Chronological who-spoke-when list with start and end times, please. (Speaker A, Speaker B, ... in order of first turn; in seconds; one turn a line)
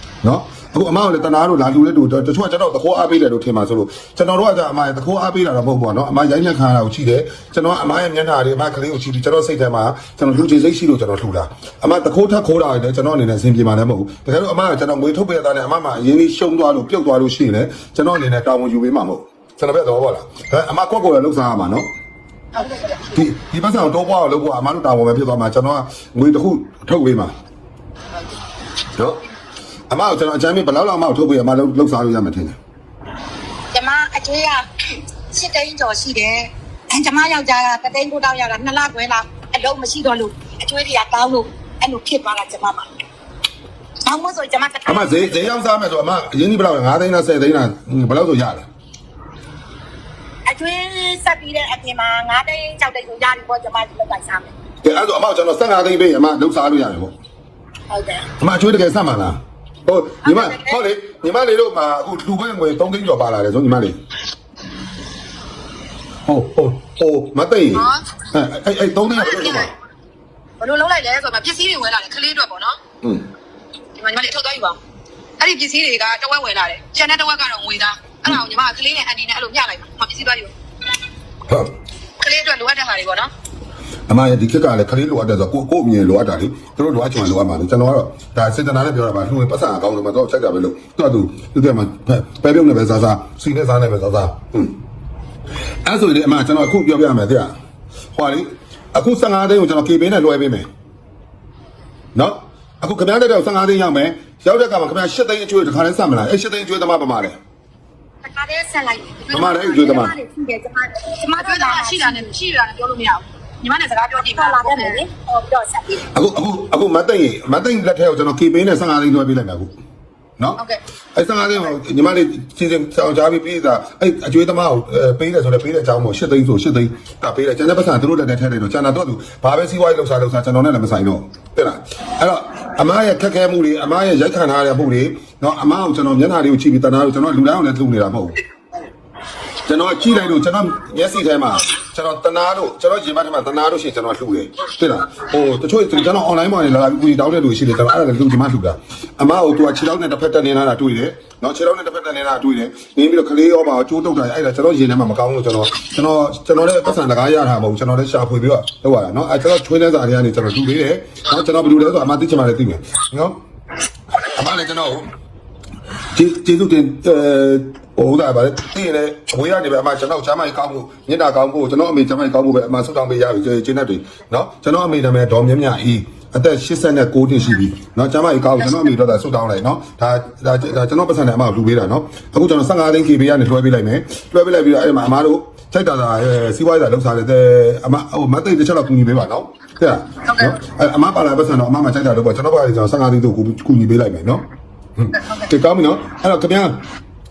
Speaker A: 0.2-21.9
Speaker B: 22.6-23.1
Speaker A: 23.1-27.3
Speaker A: 29.0-29.2
Speaker A: 29.9-32.6
Speaker C: 33.7-34.6
Speaker C: 35.3-42.9
Speaker C: 44.0-45.4
Speaker A: 44.8-48.7
Speaker C: 50.5-54.5
Speaker A: 54.8-57.1
Speaker C: 57.9-58.3
Speaker A: 58.4-64.0
Speaker C: 60.2-60.8
Speaker A: 66.2-69.7
Speaker B: 67.7-68.0
Speaker B: 69.2-69.7
Speaker B: 70.6-72.8
Speaker A: 73.0-73.3
Speaker B: 74.0-74.8
Speaker B: 75.4-80.5
Speaker B: 82.2-83.3
Speaker A: 84.1-94.8
Speaker A: 95.8-97.5
Speaker A: 98.1-100.7
Speaker A: 102.1-107.4
Speaker C: 108.2-112.3
Speaker B: 109.3-109.6
Speaker A: 109.3-110.1
Speaker B: 111.3-115.0
Speaker C: 114.3-116.0
Speaker A: 116.1-119.7
Speaker A: 121.1-138.4
Speaker A: 139.7-163.4
Speaker A: 164.2-165.1
Speaker A: 166.1-194.4
Speaker B: 190.2-190.6
Speaker A: 195.0-196.8
Speaker B: 195.1-195.5